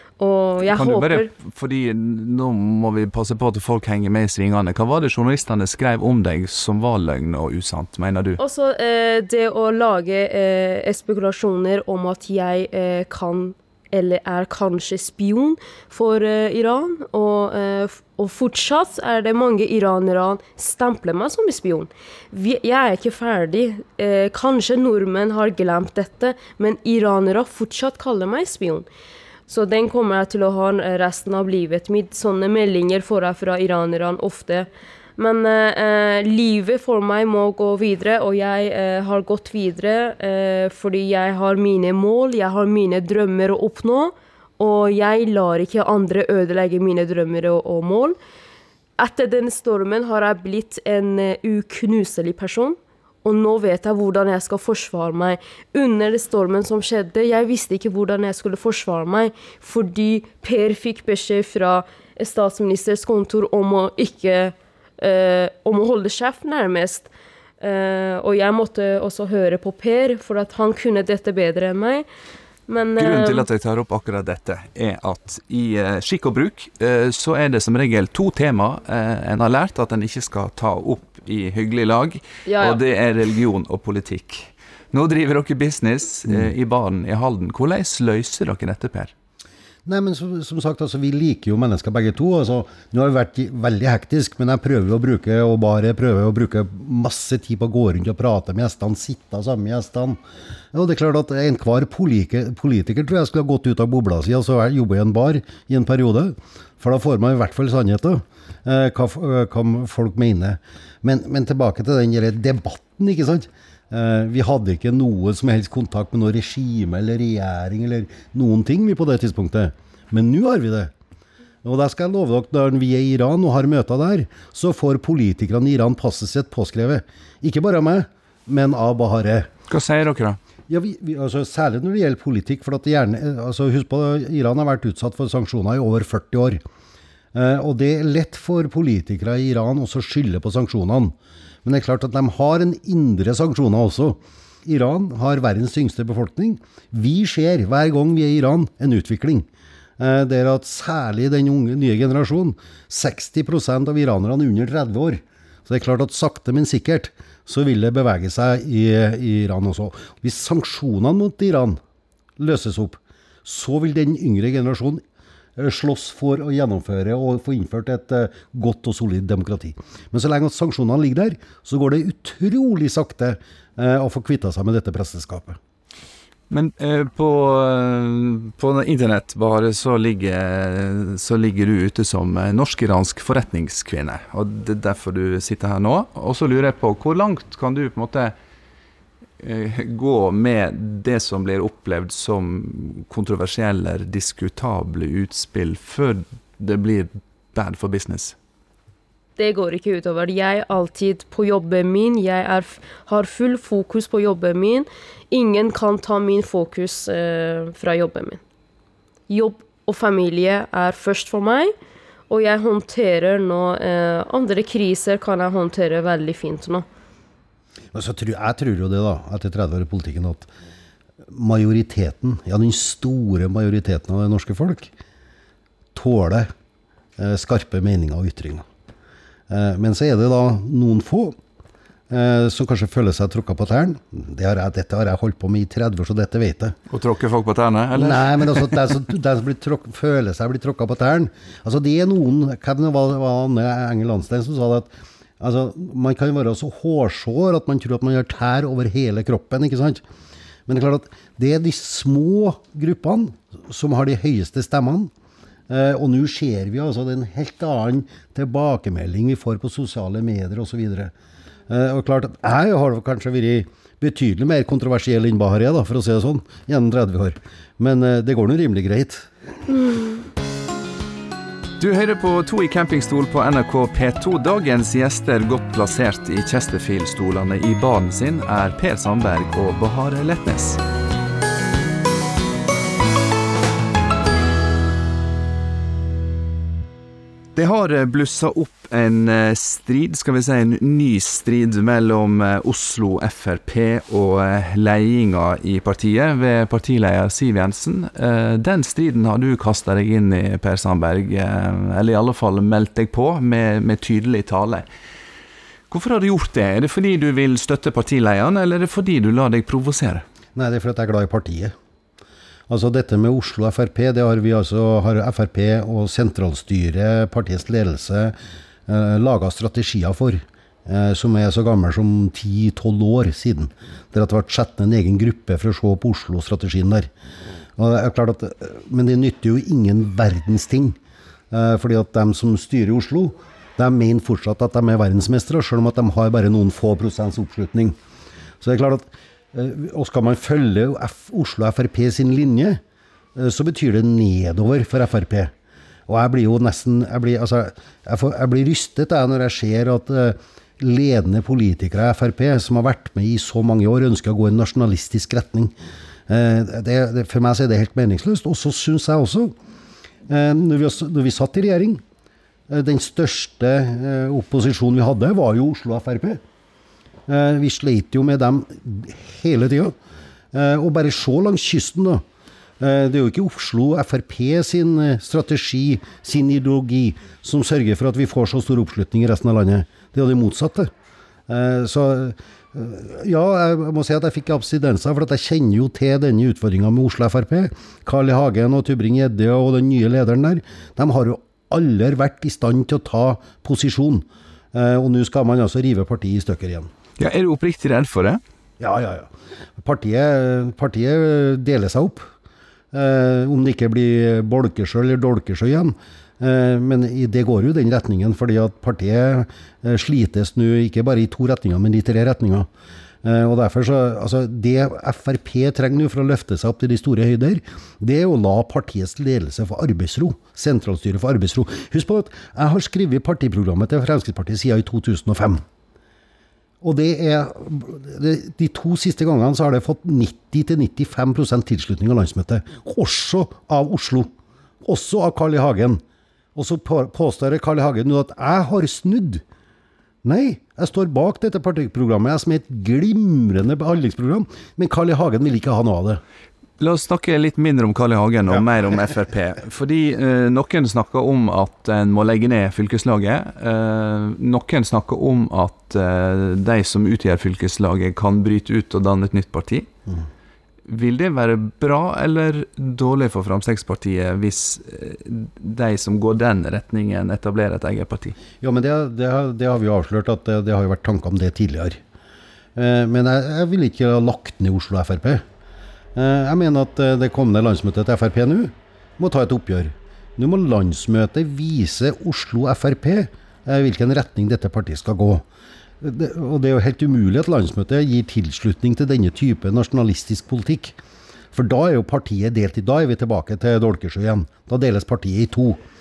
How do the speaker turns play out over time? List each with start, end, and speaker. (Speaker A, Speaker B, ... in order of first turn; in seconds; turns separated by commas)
Speaker A: 0.2-1.3, Speaker B: 0.6-8.4, Speaker A: 8.4-28.9, Speaker A: 29.5-48.2, Speaker A: 49.0-67.1, Speaker A: 67.6-72.0, Speaker A: 72.7-73.4, Speaker B: 73.0-89.1, Speaker A: 82.5-82.8, Speaker C: 89.8-100.2, Speaker C: 100.7-120.9, Speaker C: 121.6-129.5, Speaker B: 129.7-130.4, Speaker C: 130.7-136.6, Speaker C: 137.3-149.5, Speaker C: 150.0-161.8, Speaker C: 162.4-165.0, Speaker C: 165.6-175.6, Speaker B: 176.5-188.3, Speaker B: 189.4-198.3, Speaker A: 199.4-208.4, Speaker A: 209.3-211.7, Speaker A: 212.3-216.8, Speaker C: 217.9-220.5, Speaker C: 221.3-224.9, Speaker C: 225.9-226.5, Speaker C: 227.2-228.6, Speaker C: 229.5-231.4, Speaker C: 232.1-236.8, Speaker B: 236.9-238.8, Speaker C: 237.9-250.0, Speaker C: 250.7-255.1, Speaker C: 255.7-261.1, Speaker C: 261.7-269.3, Speaker B: 271.8-280.8, Speaker B: 287.6-304.9, Speaker B: 305.9-310.2, Speaker C: 310.6-311.7, Speaker C: 312.7-318.4, Speaker C: 318.9-327.1, Speaker C: 327.8-331.0, Speaker C: 331.5-338.0, Speaker C: 338.6-342.8, Speaker C: 343.4-345.5, Speaker C: 346.1-355.7, Speaker C: 356.3-359.5, Speaker C: 360.3-362.0, Speaker C: 362.7-366.4, Speaker C: 367.3-369.9, Speaker C: 370.5-372.2, Speaker C: 372.8-380.9, Speaker C: 381.5-396.9, Speaker B: 397.2-398.4, Speaker C: 398.8-402.2, Speaker C: 402.9-412.7, Speaker C: 413.2-425.6, Speaker C: 426.8-436.0, Speaker C: 436.5-439.4, Speaker C: 440.2-446.2, Speaker B: 446.8-459.9, Speaker B: 460.9-468.4, Speaker C: 468.6-472.0, Speaker C: 472.8-475.4, Speaker C: 476.1-485.4, Speaker C: 486.0-491.0, Speaker C: 491.5-495.8